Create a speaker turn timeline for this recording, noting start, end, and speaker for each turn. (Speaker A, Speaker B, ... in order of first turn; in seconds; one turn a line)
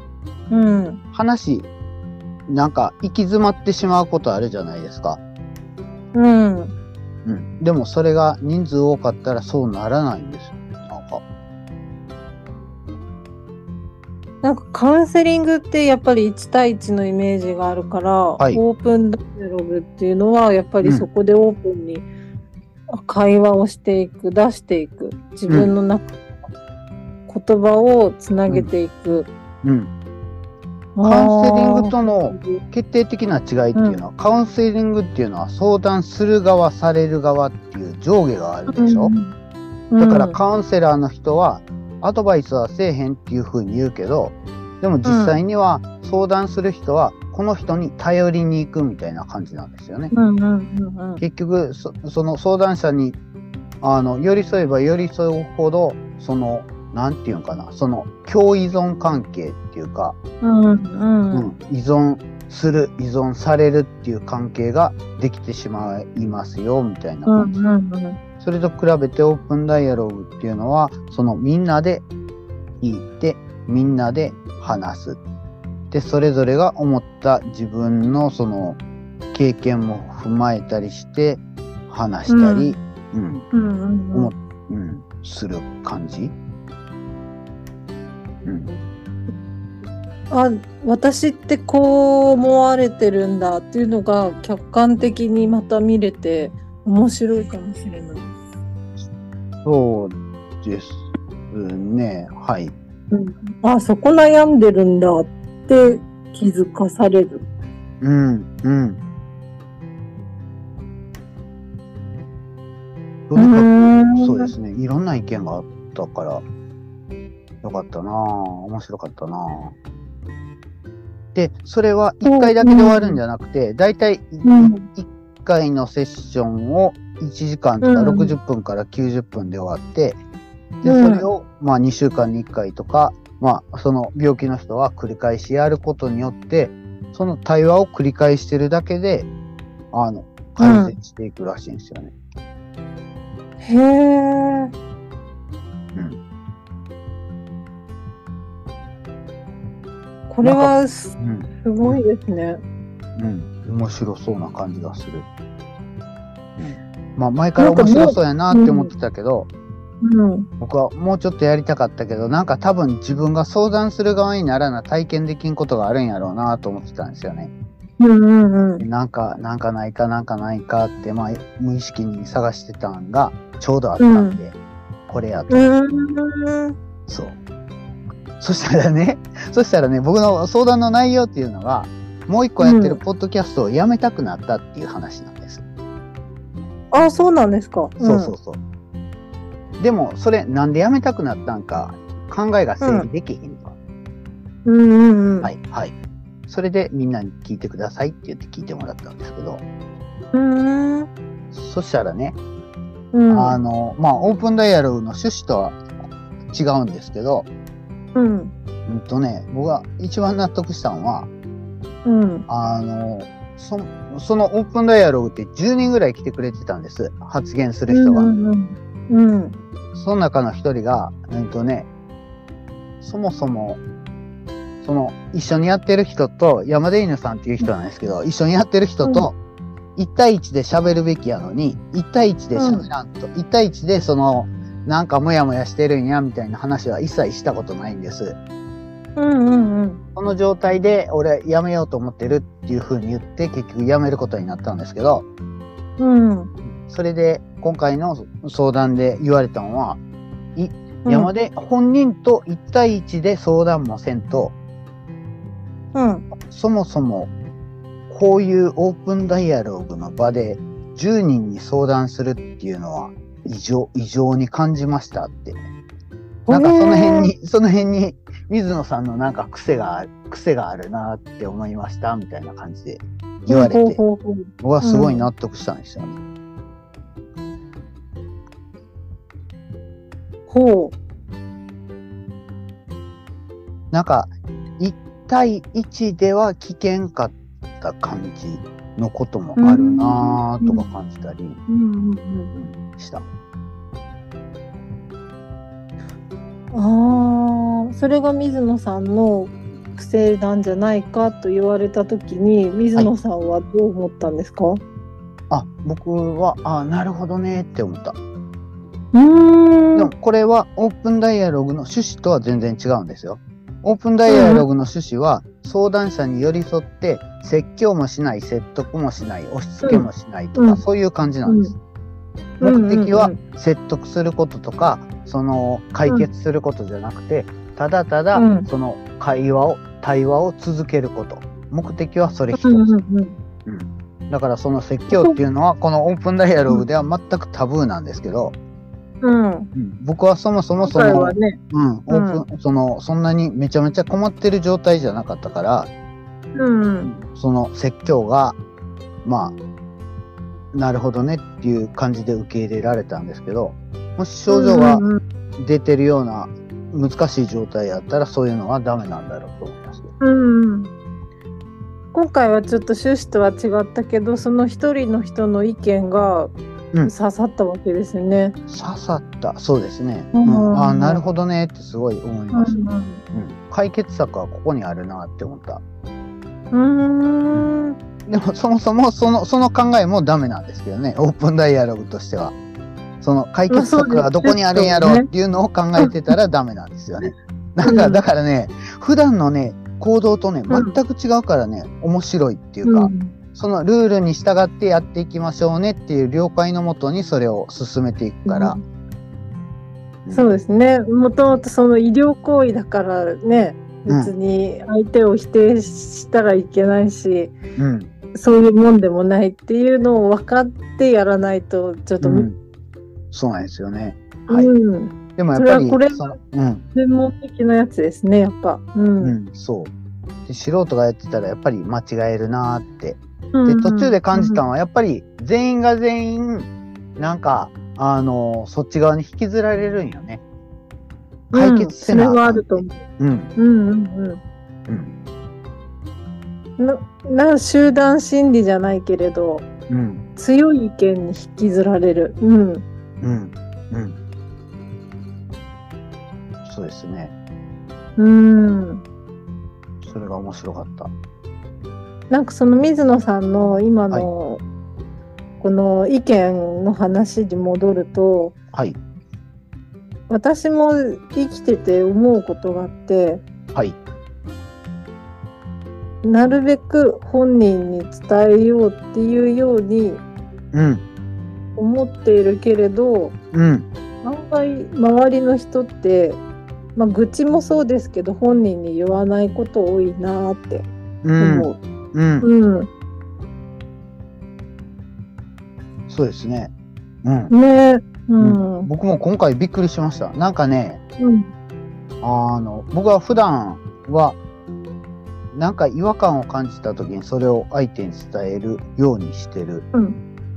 Speaker A: 0.5-1.0
Speaker B: 1.1-1.7
Speaker B: 2.5-5.2
Speaker A: 6.1-6.7
Speaker B: 7.2-11.2
Speaker A: 14.4-22.1
Speaker A: 22.9-26.1
Speaker B: 25.5-25.7
Speaker A: 27.3-29.3
Speaker B: 29.6-29.9
Speaker A: 30.9-32.6
Speaker B: 31.0-39.1
Speaker A: 38.7-39.3
Speaker A: 39.9-40.4
Speaker B: 40.0-50.1
Speaker A: 45.0-45.4
Speaker A: 50.1-51.2
Speaker B: 51.2-53.2
Speaker B: 53.8-60.1
Speaker A: 60.4-61.5
Speaker B: 61.3-67.6
Speaker A: 67.3-68.2
Speaker B: 68.4-72.0
Speaker B: 72.8-75.2
Speaker B: 75.9-78.8
Speaker B: 79.3-83.5
Speaker A: 82.3-82.8
Speaker A: 83.5-84.3
Speaker B: 84.1-86.3
Speaker B: 88.4-88.7
Speaker A: 90.3-98.3
Speaker B: 99.6-102.7
Speaker A: 103.1-107.4
Speaker B: 108.0-109.0
Speaker B: 113.3-116.4
Speaker A: 113.3-114.5
Speaker B: 117.6-119.7
Speaker B: 121.3-130.2
Speaker A: 122.2-123.2
Speaker A: 124.4-124.8
Speaker A: 127.8-128.3
Speaker B: 130.8-139.3
Speaker A: 130.8-131.3
Speaker B: 139.9-142.1
Speaker A: 140.6-140.9
Speaker A: 143.6-144.7
Speaker A: 150.3-152.6
Speaker B: 150.4-152.0
Speaker B: 153.2-155.2
Speaker B: 156.6-159.5
Speaker A: 157.6-158.9
Speaker A: 160.0-160.5
Speaker B: 160.6-167.5
Speaker A: 168.0-168.8
Speaker B: 168.8-174.5
Speaker A: 174.0-174.4
Speaker B: 175.1-175.7
Speaker A: 175.5-176.7
Speaker B: 177.1-177.4
Speaker B: 178.4-185.6
Speaker A: 182.6-183.0
Speaker A: 186.9-188.3
Speaker B: 188.0-188.6
Speaker B: 189.8-193.7
Speaker A: 192.8-193.1
Speaker A: 194.6-195.5
Speaker B: 195.4-195.9
Speaker B: 196.5-199.6
Speaker A: 200.3-201.1
Speaker B: 201.5-202.4
Speaker A: 203.1-203.6
Speaker B: 203.3-205.8
Speaker B: 206.5-207.5
Speaker A: 208.1-208.5
Speaker B: 208.9-211.3
Speaker A: 212.0-212.4
Speaker B: 212.5-218.3
Speaker A: 217.9-219.5
Speaker B: 219.9-221.9
Speaker B: 223.0-223.8
Speaker B: 224.8-229.3
Speaker B: 229.9-238.4
Speaker A: 232.5-232.9
Speaker A: 239.2-240.0
Speaker B: 240.2-245.2
Speaker A: 246.0-246.5
Speaker B: 246.8-250.0
Speaker B: 250.6-254.5
Speaker A: 251.0-251.3
Speaker A: 255.9-256.3
Speaker B: 256.4-257.3
Speaker B: 258.1-265.6
Speaker A: 266.5-267.3
Speaker B: 266.5-274.0
Speaker A: 273.5-275.3
Speaker B: 274.6-276.2
Speaker A: 280.5-280.9
Speaker B: 283.9-291.6
Speaker A: 289.6-290.9
Speaker A: 291.7-292.5
Speaker B: 292.5-293.2
Speaker A: 296.7-304.8
Speaker B: 305.5-308.2
Speaker A: 309.1-310.1
Speaker B: 309.9-321.8
Speaker A: 314.3-314.6
Speaker A: 319.8-320.8
Speaker A: 321.4-321.7
Speaker A: 322.6-323.4
Speaker B: 322.6-332.9
Speaker A: 328.3-328.7
Speaker A: 332.6-333.4
Speaker B: 333.6-338.6
Speaker A: 335.1-335.4
Speaker A: 339.2-339.7
Speaker B: 339.7-345.9
Speaker A: 340.8-341.6
Speaker A: 342.1-342.4
Speaker A: 346.6-347.1
Speaker B: 347.1-348.6
Speaker B: 349.2-349.5
Speaker B: 350.7-355.1
Speaker A: 354.5-355.2
Speaker B: 355.6-360.1
Speaker A: 360.2-360.9
Speaker A: 362.1-366.5
Speaker A: 367.0-368.6
Speaker B: 368.7-372.8
Speaker A: 370.3-371.2
Speaker A: 372.5-373.2
Speaker B: 373.3-375.8
Speaker A: 376.7-377.9
Speaker B: 378.2-382.5
Speaker B: 383.2-398.8
Speaker A: 383.7-385.3
Speaker A: 387.8-388.2
Speaker A: 390.7-391.0
Speaker A: 392.8-393.3
Speaker A: 398.4-398.8
Speaker B: 400.2-400.5
Speaker A: 400.3-407.6
Speaker B: 404.1-404.3
Speaker B: 407.8-408.1
Speaker A: 408.3-412.5
Speaker B: 412.2-412.6
Speaker B: 413.3-414.7
Speaker A: 414.5-416.4
Speaker B: 415.4-416.8
Speaker A: 416.9-419.4
Speaker B: 419.2-419.9
Speaker B: 420.4-430.4
Speaker A: 423.5-424.6
Speaker A: 431.5-433.0
Speaker B: 431.5-433.5
Speaker A: 433.6-434.4
Speaker B: 434.9-435.1
Speaker A: 436.8-439.6
Speaker B: 439.9-440.2
Speaker A: 440.4-442.8
Speaker B: 443.2-444.1
Speaker B: 446.6-447.3
Speaker A: 448.2-449.0
Speaker B: 450.0-451.1
Speaker A: 452.3-454.6
Speaker A: 455.6-458.5
Speaker A: 460.3-463.4
Speaker A: 466.2-470.2
Speaker B: 470.7-471.0
Speaker A: 471.8-473.3
Speaker B: 473.5-473.9
Speaker A: 474.2-476.4
Speaker A: 476.9-480.9
Speaker B: 481.2-482.5
Speaker A: 481.4-481.8
Speaker A: 482.4-482.9
Speaker B: 486.1-486.7
Speaker B: 487.2-487.5
Speaker A: 487.5-488.9
Speaker B: 488.4-491.0
Speaker A: 491.2-491.5
Speaker B: 492.2-494.4
Speaker B: 495.5-499.9